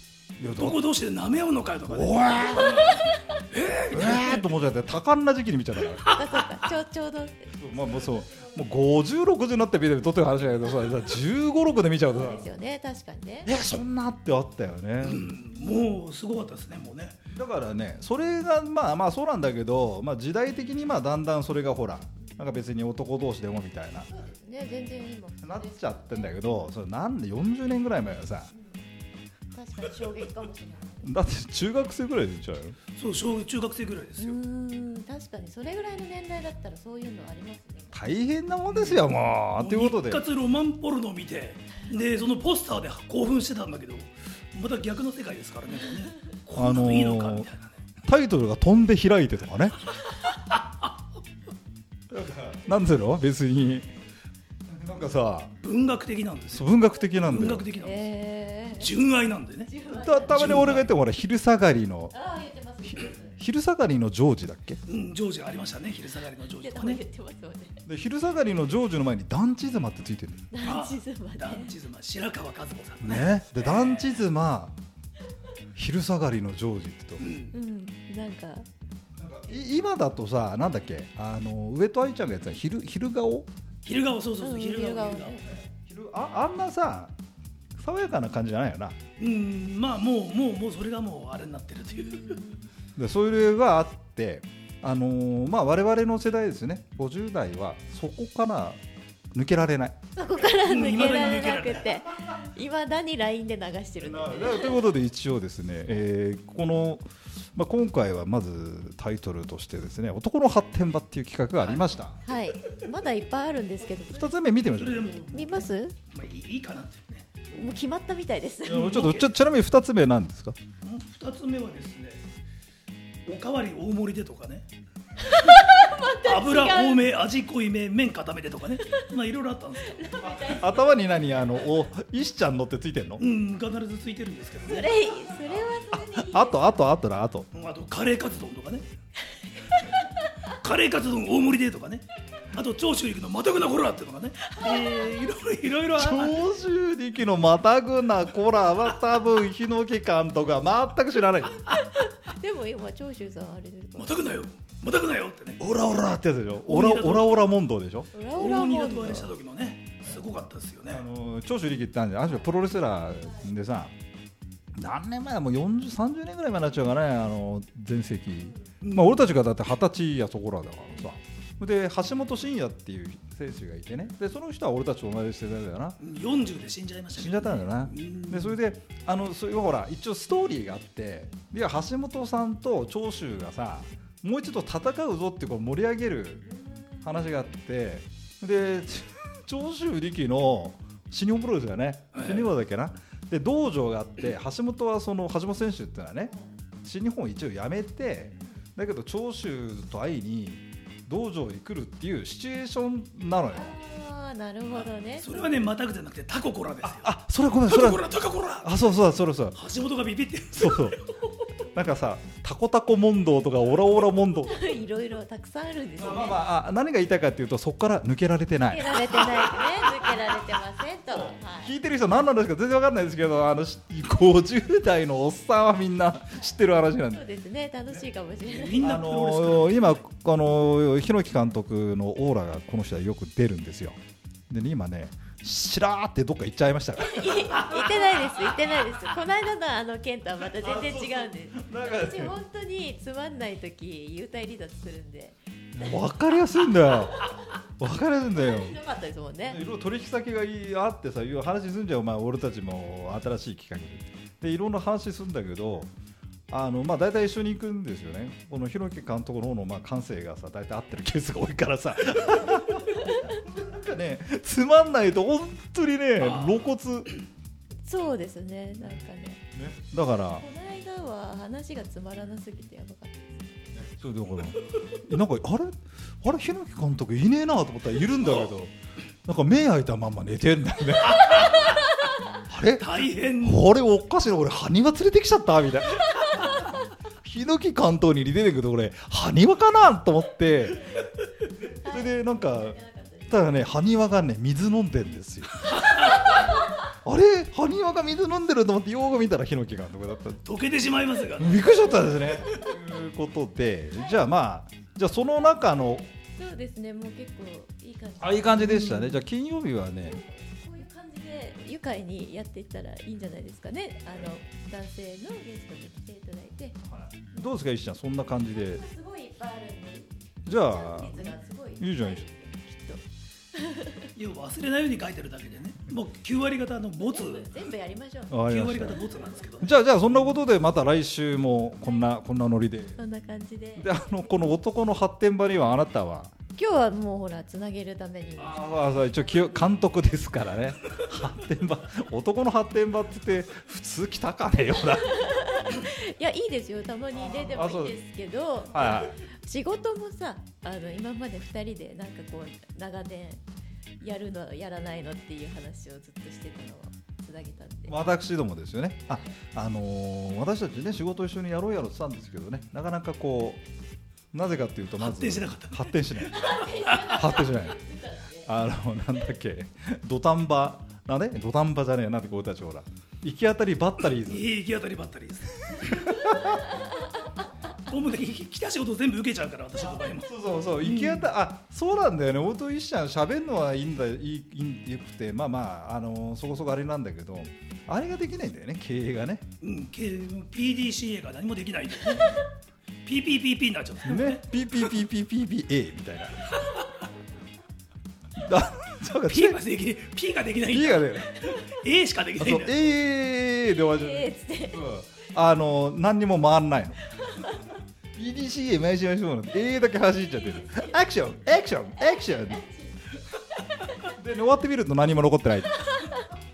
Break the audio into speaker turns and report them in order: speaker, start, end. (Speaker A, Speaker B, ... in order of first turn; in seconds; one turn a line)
Speaker A: 0.4-0.8
Speaker B: 0.5-4.4
Speaker A: 1.9-2.9
Speaker C: 2.7-3.4
Speaker A: 3.9-6.1
Speaker C: 6.0-8.7
Speaker A: 7.5-12.5
Speaker C: 12.1-13.5
Speaker A: 13.4-15.3
Speaker B: 15.0-17.1
Speaker A: 17.3-24.1
Speaker C: 24.1-26.7
Speaker A: 25.4-28.5
Speaker C: 29.5-31.1
Speaker A: 31.0-32.8
Speaker B: 32.9-34.4
Speaker C: 34.2-38.0
Speaker A: 37.9-40.2
Speaker B: 38.7-47.8
Speaker A: 46.5-47.5
Speaker A: 48.0-49.8
Speaker A: 52.1-53.9
Speaker A: 54.7-55.5
Speaker B: 55.6-58.1
Speaker A: 56.5-57.7
Speaker C: 57.8-58.9
Speaker B: 58.7-59.7
Speaker C: 59.7-60.5
Speaker A: 59.9-62.1
Speaker B: 60.3-60.9
Speaker C: 62.1-63.3
Speaker A: 63.0-64.8
Speaker B: 64.9-67.0
Speaker C: 66.5-67.8
Speaker A: 67.8-70.5
Speaker C: 70.5-71.7
Speaker B: 70.6-74.1
Speaker A: 73.0-74.8
Speaker A: 75.7-77.2
Speaker B: 77.2-77.5
Speaker C: 77.5-78.7
Speaker A: 79.2-83.5
Speaker B: 83.8-85.4
Speaker C: 84.4-85.5
Speaker A: 85.7-87.1
Speaker A: 87.8-89.0
Speaker B: 89.2-92.4
Speaker C: 92.0-92.7
Speaker A: 93.0-98.8
Speaker A: 99.3-100.0
Speaker C: 100.1-104.8
Speaker B: 100.5-102.0
Speaker A: 104.0-112.2
Speaker B: 111.5-112.0
Speaker C: 112.2-114.3
Speaker A: 114.0-115.0
Speaker B: 114.7-117.5
Speaker C: 115.3-116.0
Speaker C: 117.5-118.9
Speaker B: 118.7-119.3
Speaker A: 118.7-120.6
Speaker B: 120.8-122.2
Speaker B: 123.2-124.7
Speaker C: 125.2-127.1
Speaker B: 125.5-130.2
Speaker C: 129.9-131.8
Speaker A: 130.2-133.2
Speaker B: 133.2-135.0
Speaker C: 134.6-136.8
Speaker A: 135.9-137.5
Speaker B: 137.5-138.8
Speaker C: 139.7-140.1
Speaker B: 140.5-146.4
Speaker C: 144.5-144.9
Speaker A: 145.9-151.6
Speaker C: 151.7-154.2
Speaker B: 153.9-155.6
Speaker A: 155.6-158.1
Speaker B: 156.7-157.5
Speaker C: 158.1-159.3
Speaker B: 158.3-161.0
Speaker A: 160.9-163.9
Speaker A: 164.7-176.0
Speaker C: 168.4-168.7
Speaker B: 168.8-169.2
Speaker B: 176.0-178.6
Speaker A: 177.1-186.4
Speaker C: 186.5-187.0
Speaker A: 187.0-196.3
Speaker B: 192.1-192.5
Speaker A: 196.8-203.7
Speaker C: 203.5-205.7
Speaker B: 204.7-207.1
Speaker A: 206.8-208.1
Speaker B: 207.7-208.8
Speaker A: 208.6-209.6
Speaker B: 209.5-211.0
Speaker A: 210.5-211.0
Speaker A: 211.7-214.6
Speaker C: 214.4-216.4
Speaker A: 216.0-219.2
Speaker C: 218.7-221.7
Speaker B: 219.2-220.1
Speaker A: 221.1-227.2
Speaker C: 227.1-228.8
Speaker B: 228.4-230.0
Speaker A: 228.8-234.0
Speaker A: 234.5-238.2
Speaker C: 237.0-245.4
Speaker A: 240.6-242.4
Speaker A: 245.7-247.2
Speaker A: 247.8-248.8
Speaker C: 248.3-249.6
Speaker A: 249.5-255.9
Speaker A: 256.5-267.1
Speaker B: 266.2-266.6
Speaker C: 267.8-269.4
Speaker A: 269.5-270.4
Speaker C: 270.2-273.6
Speaker A: 273.7-278.7
Speaker A: 279.2-281.7
Speaker A: 282.5-286.7
Speaker B: 282.8-283.6
Speaker A: 287.2-290.9
Speaker C: 291.6-293.4
Speaker A: 291.9-292.8
Speaker A: 293.3-295.8
Speaker C: 296.0-296.4
Speaker A: 296.9-300.4
Speaker B: 300.4-301.7
Speaker A: 301.4-306.1
Speaker C: 306.4-308.7
Speaker A: 308.2-310.2
Speaker B: 308.6-309.2
Speaker C: 310.0-316.8
Speaker A: 316.9-318.8
Speaker C: 318.5-324.1
Speaker A: 320.4-322.2
Speaker B: 324.1-327.7
Speaker C: 327.0-328.4
Speaker A: 328.3-329.0
Speaker B: 328.4-329.7
Speaker C: 329.0-329.4
Speaker A: 329.6-333.0
Speaker C: 333.0-334.1
Speaker A: 333.8-336.3
Speaker C: 336.5-339.4
Speaker A: 338.4-345.1
Speaker C: 344.8-353.4
Speaker A: 347.1-348.0
Speaker A: 348.7-349.2
Speaker C: 354.0-357.9
Speaker A: 357.9-363.6
Speaker A: 364.3-367.8
Speaker B: 365.0-365.9
Speaker C: 366.3-368.5
Speaker B: 366.5-367.1
Speaker A: 368.4-374.4
Speaker B: 374.2-376.0
Speaker A: 375.8-376.6
Speaker C: 375.9-377.3
Speaker B: 377.9-380.3
Speaker A: 379.8-389.5
Speaker B: 380.8-381.3
Speaker B: 389.6-392.4
Speaker B: 393.0-394.4
Speaker A: 394.1-396.5
Speaker A: 398.4-399.6
Speaker B: 399.3-402.7
Speaker A: 400.7-401.4
Speaker A: 402.4-407.0
Speaker C: 403.9-404.8
Speaker C: 407.2-407.6
Speaker A: 408.1-412.6
Speaker C: 410.6-410.9
Speaker C: 412.0-413.0
Speaker A: 414.1-415.9